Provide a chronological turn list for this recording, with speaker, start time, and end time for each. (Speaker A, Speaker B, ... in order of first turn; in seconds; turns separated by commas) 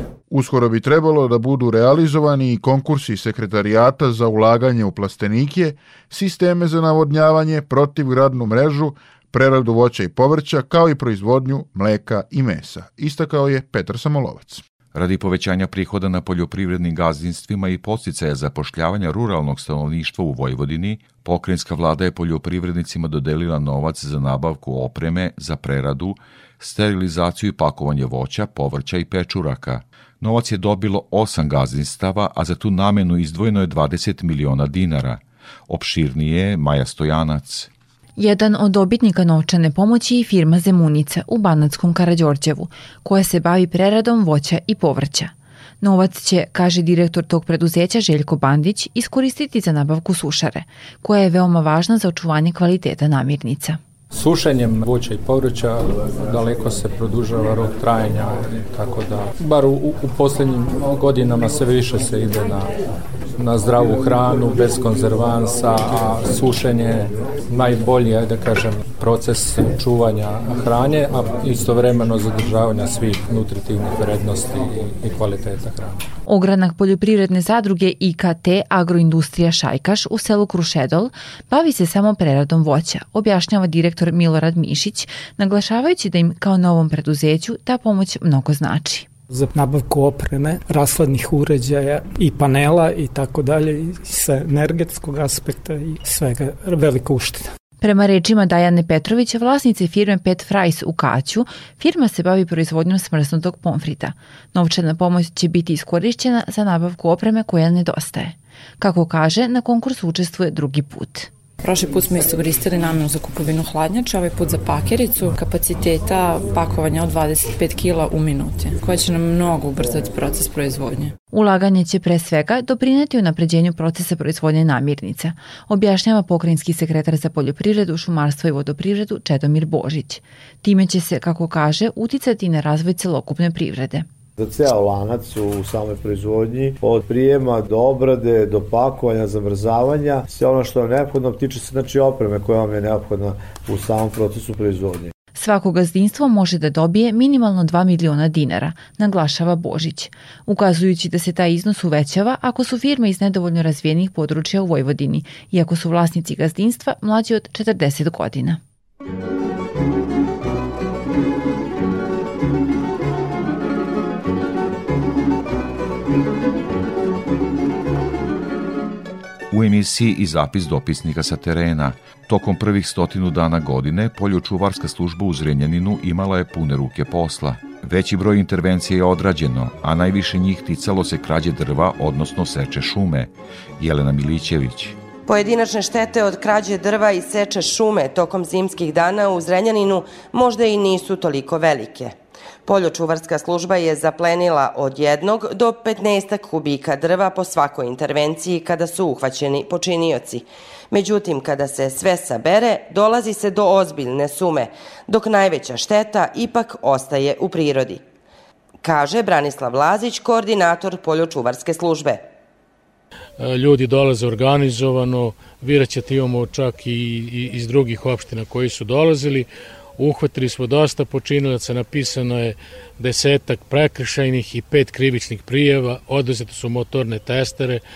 Speaker A: 0.3-14.6, Speaker B: 14.9-37.7, Speaker C: 38.2-53.8, Speaker D: 54.1-62.6, Speaker D: 63.4-76.0, Speaker C: 76.3-89.1, Speaker E: 89.3-97.3, Speaker C: 97.8-111.3, Speaker F: 111.6-121.1, Speaker C: 121.3-134.1, Speaker G: 134.4-145.1, Speaker C: 145.3-158.6, Speaker B: 169.5-185.0, Speaker H: 185.3-208.0, Speaker H: 208.8-212.2, Speaker I: 213.4-219.5, Speaker I: 220.0-227.8